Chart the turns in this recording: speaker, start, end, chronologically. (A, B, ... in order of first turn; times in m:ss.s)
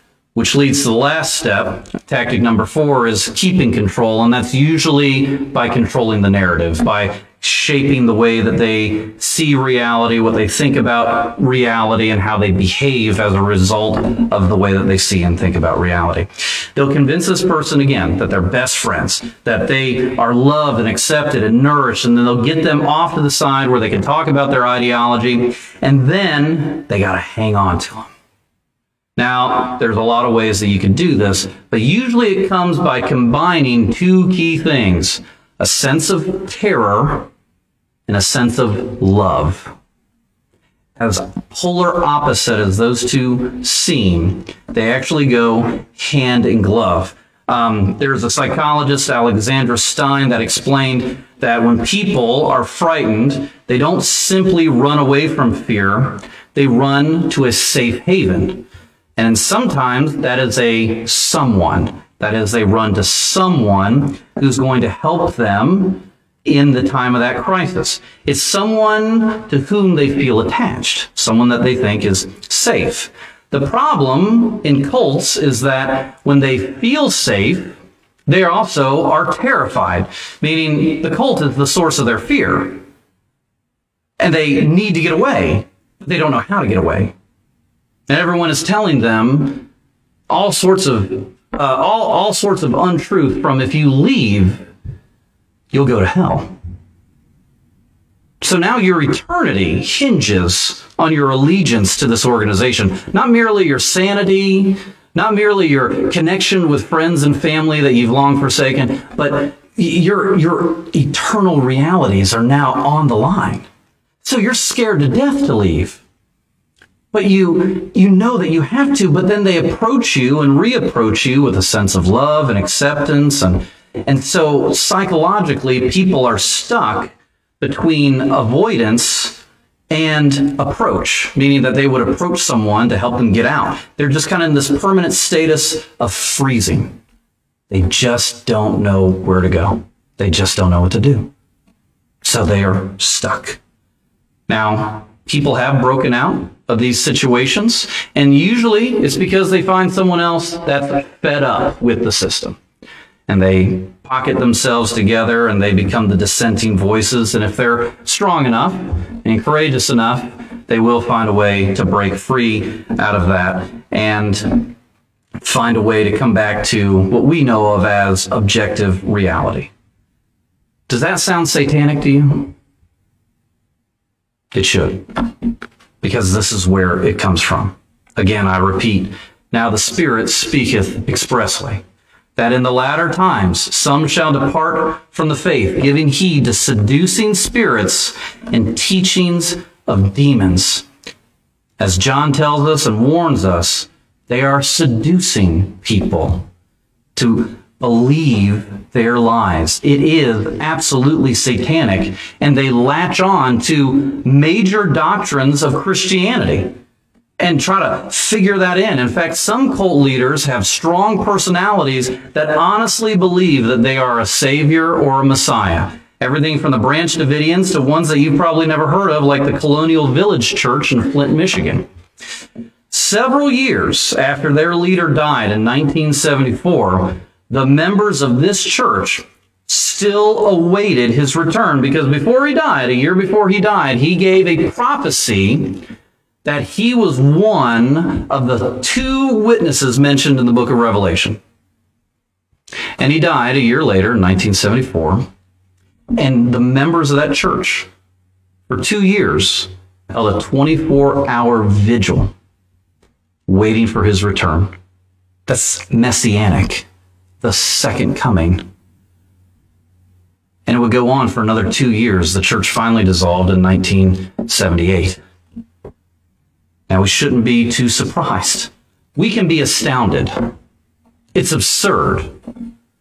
0:00.3-0:28.1 A
0:29.2-0:37.3 A
0:38.1-0:39.7 A
0:41.0-0:58.6 A
0:59.2-1:22.8 A
1:24.2-1:27.1 A
1:28.1-1:29.7 A
1:30.3-1:34.7 A
1:35.7-1:36.5 A
1:38.4-1:53.7 A
1:54.2-1:56.0 A
1:57.1-2:17.0 A
2:17.7-2:21.3 A
2:22.2-2:23.6 A
2:24.5-2:32.6 A
2:33.3-2:44.7 A
2:45.4-2:49.7 A
2:50.9-2:52.5 A
2:54.5-2:55.1 A
2:56.0-3:01.8 A
3:02.4-3:10.8 A
3:11.8-3:16.5 A
3:17.1-3:26.7 A
3:27.4-3:41.8 A
3:42.9-3:55.8 A
3:56.4-4:01.4 A
4:03.0-4:05.3 A
4:06.2-4:07.9 A
4:08.7-4:12.3 A
4:13.5-4:14.7 A
4:15.5-4:16.8 A
4:17.4-4:18.6 A
4:20.6-4:25.2 A
4:26.9-4:30.5 A
4:31.3-4:32.3 A